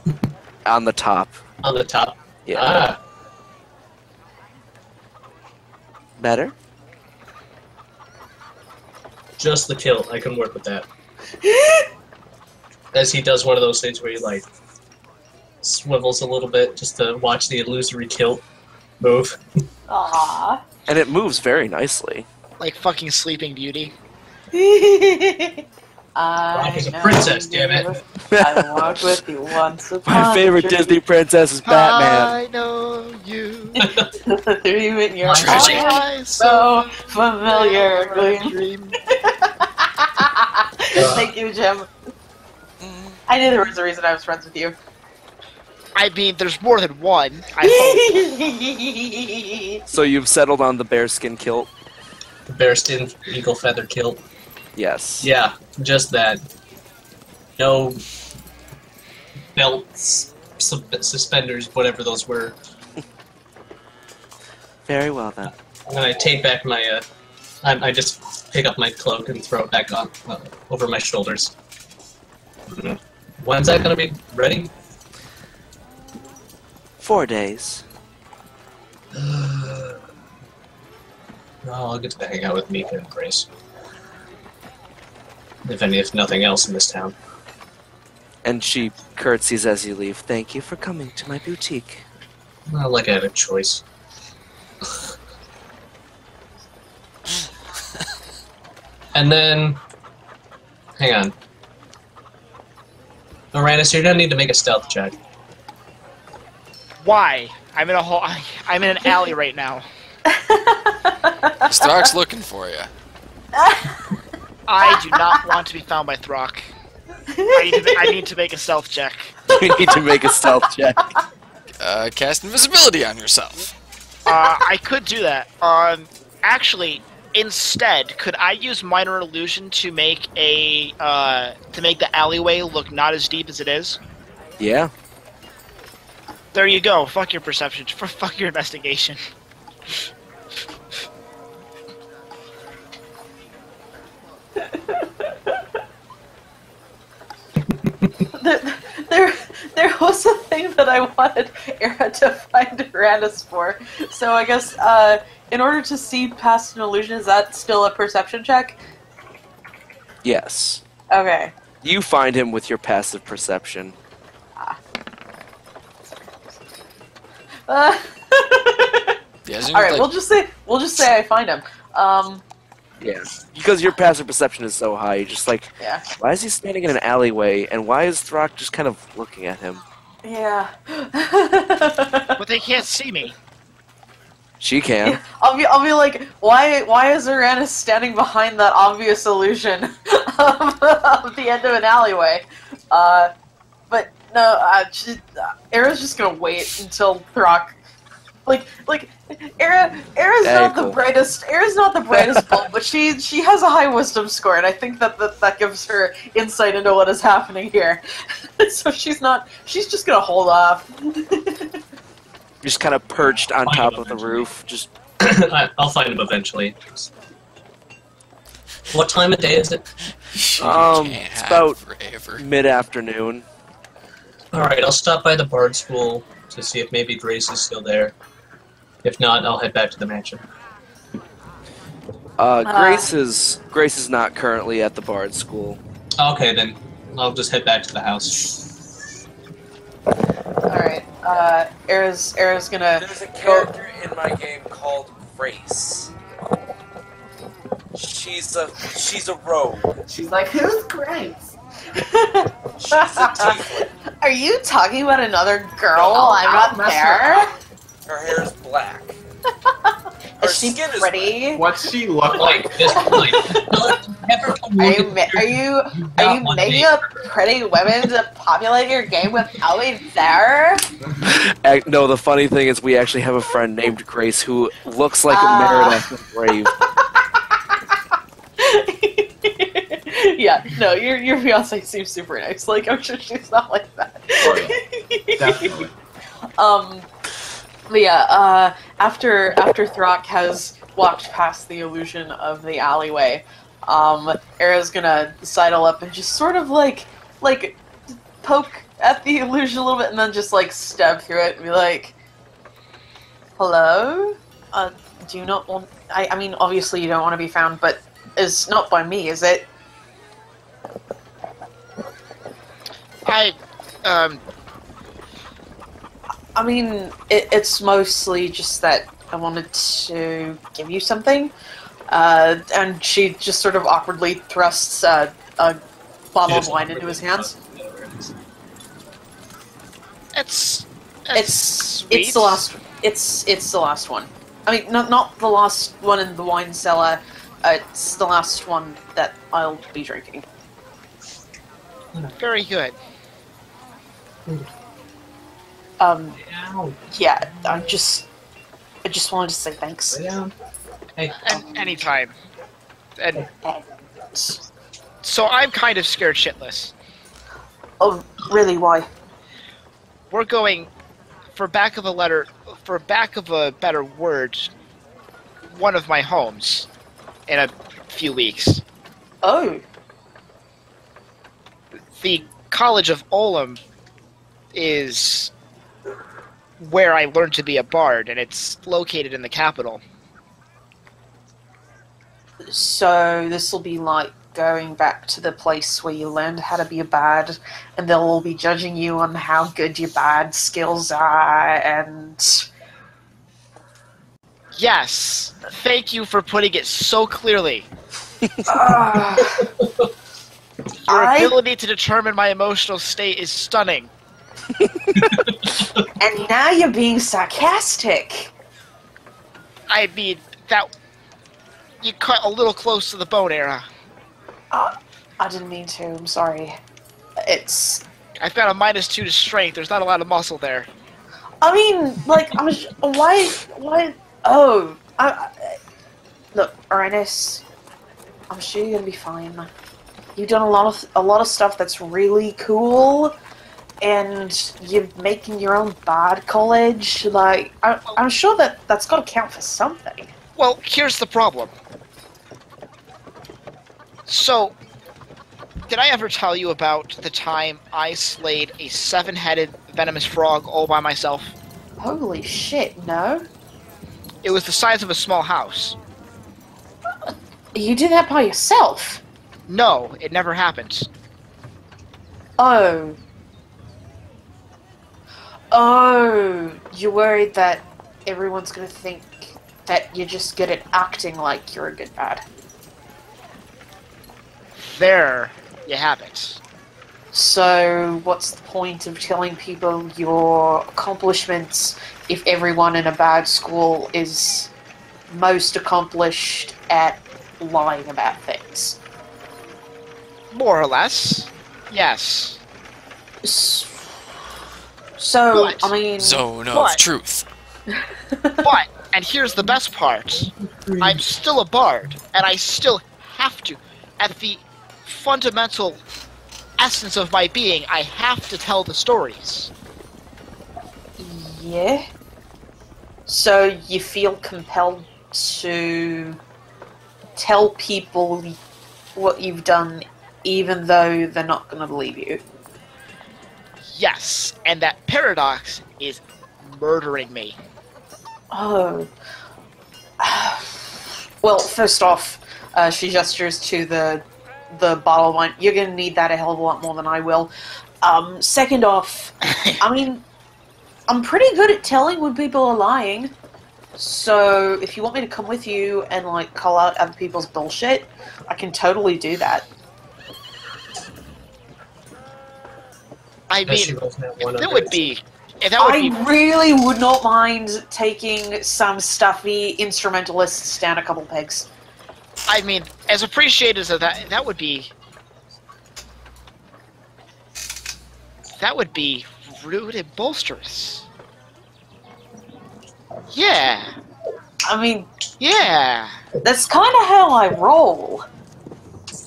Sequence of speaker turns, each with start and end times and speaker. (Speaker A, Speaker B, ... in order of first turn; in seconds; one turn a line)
Speaker A: 0.7-1.4
Speaker B: 1.6-3.0
Speaker A: 2.5-2.9
Speaker A: 6.2-6.5
Speaker B: 9.4-10.9
Speaker C: 11.4-11.9
Speaker B: 12.9-14.5
Speaker B: 15.6-18.4
Speaker B: 19.0-19.4
Speaker C: 19.9-20.6
Speaker A: 20.9-22.3
Speaker D: 22.6-23.9
Speaker C: 24.5-25.6
Speaker C: 26.2-31.0
Speaker B: 26.5-28.0
Speaker A: 28.3-29.2
Speaker A: 30.1-32.4
Speaker D: 31.7-33.9
Speaker B: 33.8-34.1
Speaker C: 34.2-41.9
Speaker B: 35.2-36.0
Speaker D: 35.3-39.0
Speaker E: 35.4-35.9
Speaker B: 41.0-41.3
Speaker E: 42.8-43.2
Speaker C: 43.3-44.8
Speaker D: 46.0-48.3
Speaker C: 47.6-49.8
Speaker A: 49.9-51.7
Speaker B: 52.5-54.2
Speaker A: 54.8-55.3
Speaker B: 55.2-56.4
Speaker B: 57.6-58.0
Speaker B: 59.5-62.6
Speaker A: 64.9-65.5
Speaker B: 65.5-67.0
Speaker B: 67.6-71.5
Speaker B: 72.7-74.7
Speaker A: 77.0-77.8
Speaker B: 79.1-80.0
Speaker B: 81.6-83.5
Speaker B: 85.7-87.2
Speaker A: 88.5-92.1
Speaker B: 92.7-93.8
Speaker B: 94.8-95.1
Speaker B: 99.1-99.8
Speaker B: 101.0-101.3
Speaker B: 103.5-105.2
Speaker D: 107.0-109.8
Speaker C: 110.3-112.1
Speaker E: 111.7-112.9
Speaker C: 113.6-114.1
Speaker D: 114.7-116.7
Speaker C: 114.8-115.6
Speaker C: 117.3-118.3
Speaker D: 117.5-119.4
Speaker A: 119.5-121.1
Speaker C: 119.7-120.5
Speaker E: 121.8-123.7
Speaker D: 124.3-134.0
Speaker A: 134.6-134.9
Speaker D: 136.5-139.2
Speaker C: 144.6-145.6
Speaker B: 147.7-148.3
Speaker C: 148.3-158.8
Speaker A: 160.2-160.8
Speaker C: 161.1-161.5
Speaker A: 161.8-164.0
Speaker C: 167.7-172.4
Speaker E: 169.4-170.1
Speaker A: 173.0-179.8
Speaker C: 175.8-176.1
Speaker C: 180.2-182.4
Speaker D: 182.4-183.3
Speaker A: 184.6-185.2
Speaker C: 185.0-193.3
Speaker C: 193.9-197.8
Speaker C: 198.5-208.0
Speaker A: 200.4-201.0
Speaker C: 208.6-211.8
Speaker A: 212.6-214.9
Speaker B: 213.2-214.5
Speaker B: 215.2-217.1
Speaker B: 218.9-219.8
Speaker E: 220.3-222.4
Speaker A: 220.6-221.8
Speaker A: 222.4-223.4
Speaker B: 224.5-228.2
Speaker B: 229.0-230.4
Speaker A: 232.4-235.8
Speaker C: 232.6-233.1
Speaker B: 236.2-238.8
Speaker C: 240.7-243.7
Speaker A: 243.0-246.1
Speaker A: 247.9-250.0
Speaker F: 250.1-251.4
Speaker C: 251.9-257.5
Speaker A: 252.8-253.9
Speaker F: 256.1-257.3
Speaker A: 258.1-259.2
Speaker C: 260.4-261.6
Speaker A: 260.4-261.4
Speaker F: 261.5-263.2
Speaker B: 262.3-267.3
Speaker C: 263.0-263.8
Speaker C: 264.8-270.9
Speaker A: 271.2-276.7
Speaker C: 275.3-276.1
Speaker C: 277.0-277.6
Speaker C: 278.6-285.9
Speaker F: 284.4-284.8
Speaker F: 285.4-285.9
Speaker C: 286.6-287.1
Speaker C: 287.9-297.8
Speaker C: 298.4-302.1
Speaker C: 303.6-309.7
Speaker D: 313.3-314.4
Speaker C: 316.6-321.5
Speaker C: 322.1-325.8
Speaker C: 326.3-327.5
Speaker B: 326.4-328.3
Speaker D: 330.3-332.6
Speaker C: 331.3-340.4
Speaker D: 342.4-343.0
Speaker C: 346.0-346.4
Speaker B: 346.4-347.0
Speaker C: 347.1-348.3
Speaker C: 349.0-350.2
Speaker B: 350.1-350.5
Speaker B: 351.2-351.6
Speaker D: 351.4-352.3
Speaker D: 353.2-353.4
Speaker C: 353.6-354.6
Speaker D: 355.2-356.9
Speaker C: 358.0-359.1
Speaker D: 360.3-360.9
Speaker D: 361.6-364.7
Speaker D: 365.7-366.9
Speaker D: 367.5-368.8
Speaker C: 369.4-369.8
Speaker D: 372.1-373.8
Speaker D: 374.7-375.5
Speaker D: 376.8-380.0
Speaker C: 382.6-392.7
Speaker D: 394.8-397.9
Speaker A: 398.4-398.7
Speaker C: 398.7-399.7
Speaker B: 399.4-400.1
Speaker C: 401.1-401.6
Speaker D: 401.1-404.1
Speaker A: 404.8-405.4
Speaker B: 405.2-406.1
Speaker C: 406.2-408.5
Speaker D: 409.9-410.9
Speaker D: 412.0-413.9
Speaker C: 414.7-416.8
Speaker C: 417.4-418.0
Speaker D: 418.4-420.9
Speaker C: 421.6-425.8
Speaker C: 426.5-427.6
Speaker C: 428.5-429.7
Speaker C: 430.4-433.4
Speaker C: 434.0-440.3
Speaker D: 440.6-441.7
Speaker D: 444.3-444.8
Speaker D: 445.9-451.6
Speaker C: 452.0-453.4
Speaker D: 454.4-456.0
Speaker C: 457.3-459.2
Speaker D: 459.7-461.1
Speaker C: 462.6-463.2
Speaker C: 465.7-472.4
Speaker D: 474.9-476.6
Speaker C: 477.3-484.7
Speaker C: 485.3-489.0
Speaker D: 490.5-492.6
Speaker C: 493.4-494.3
Speaker C: 495.2-496.4
Speaker D: 495.5-495.9
Speaker E: 496.2-497.5
Speaker D: 496.7-497.0
Speaker C: 497.9-498.7
Speaker D: 498.6-500.5
Speaker B: 500.3-501.2
Speaker D: 501.0-506.0
Speaker D: 506.8-509.7
Speaker C: 511.2-512.1
Speaker C: 513.3-516.4
Speaker C: 517.4-518.6
Speaker C: 519.1-522.4
Speaker D: 523.9-527.6
Speaker C: 528.5-529.1
Speaker C: 530.2-537.5
Speaker C: 538.0-540.2
Speaker D: 539.5-539.8
Speaker C: 541.1-543.3
Speaker C: 544.0-549.7
Speaker D: 553.5-554.0
Speaker B: 553.7-555.0
Speaker D: 554.6-556.3
Speaker C: 555.8-561.7
Speaker D: 562.5-564.9
Speaker D: 568.6-571.0
Speaker D: 573.3-573.9
Speaker C: 574.7-575.1
Speaker D: 575.4-576.2
Speaker C: 576.4-578.2